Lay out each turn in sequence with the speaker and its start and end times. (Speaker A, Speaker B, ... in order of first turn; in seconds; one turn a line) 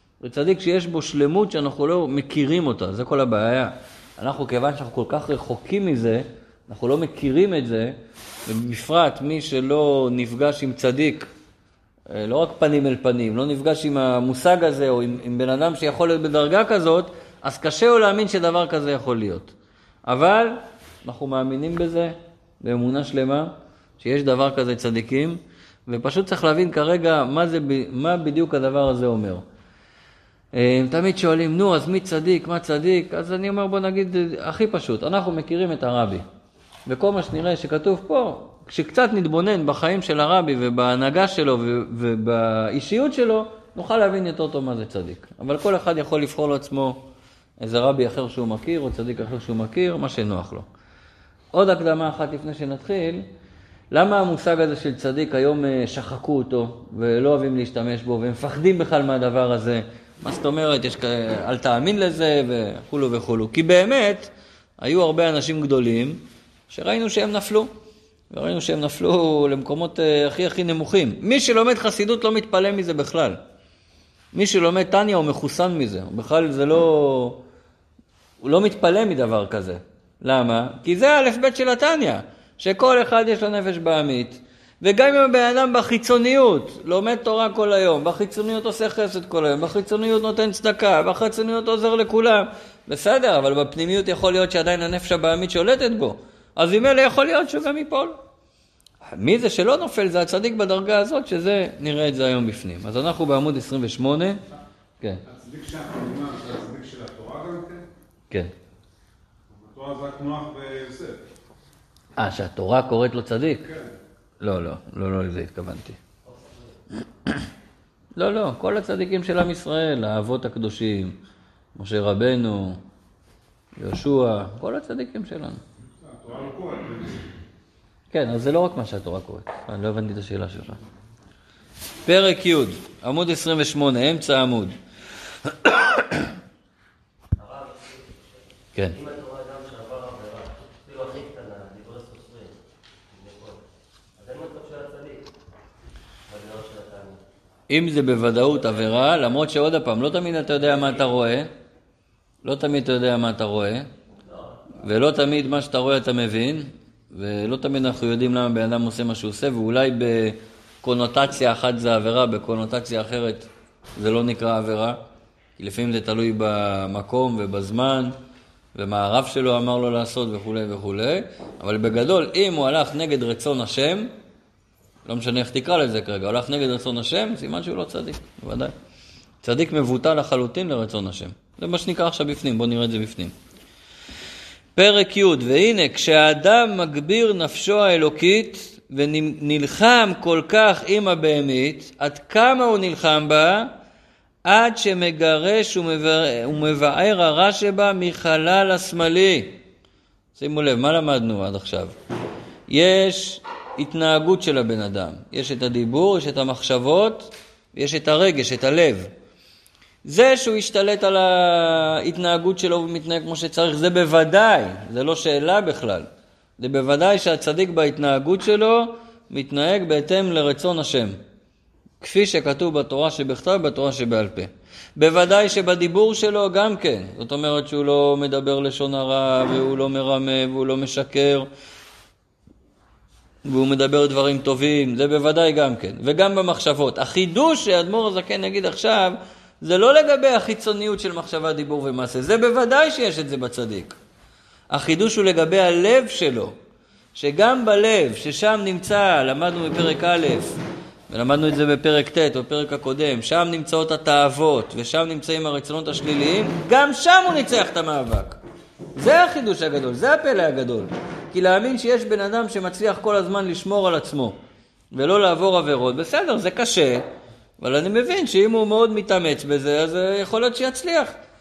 Speaker A: 0.2-11.3
Speaker A: 12.1-19.5
Speaker A: 20.1-29.4
Speaker A: 30.5-36.2
Speaker A: 36.9-47.0
Speaker A: 47.6-50.6
Speaker A: 51.5-53.2
Speaker A: 53.9-67.7
Speaker A: 68.3-73.4
Speaker A: 74.3-77.4
Speaker A: 78.4-98.2
Speaker A: 99.1-104.4
Speaker B: 105.2-107.8
Speaker B: 109.5-111.2
Speaker A: 112.2-113.7
Speaker B: 113.7-113.9
Speaker A: 114.4-116.0
Speaker C: 116.3-116.6
Speaker A: 118.2-121.2
Speaker A: 121.7-122.8
Speaker A: 123.8-125.6
Speaker B: 126.0-127.3
Speaker A: 128.1-130.8
Speaker A: 132.0-134.7
Speaker A: 135.5-136.2
Speaker C: 137.4-138.2
Speaker C: 138.9-142.6
Speaker C: 143.1-143.6
Speaker C: 144.2-145.3
Speaker C: 146.3-147.2
Speaker A: 147.7-151.5
Speaker A: 152.4-153.9
Speaker A: 154.8-165.0
Speaker A: 165.6-168.1
Speaker A: 168.7-174.1
Speaker A: 175.1-178.7
Speaker A: 179.4-183.3
Speaker A: 184.7-193.7
Speaker A: 194.4-199.6
Speaker A: 200.3-201.9
Speaker A: 202.7-209.1
Speaker A: 210.0-216.1
Speaker A: 216.6-221.2
Speaker A: 222.0-231.5
Speaker A: 233.4-243.9
Speaker A: 244.7-246.5
Speaker A: 247.1-250.6
Speaker A: 251.1-258.4
Speaker A: 258.9-264.3
Speaker A: 264.9-267.0
Speaker A: 267.6-271.2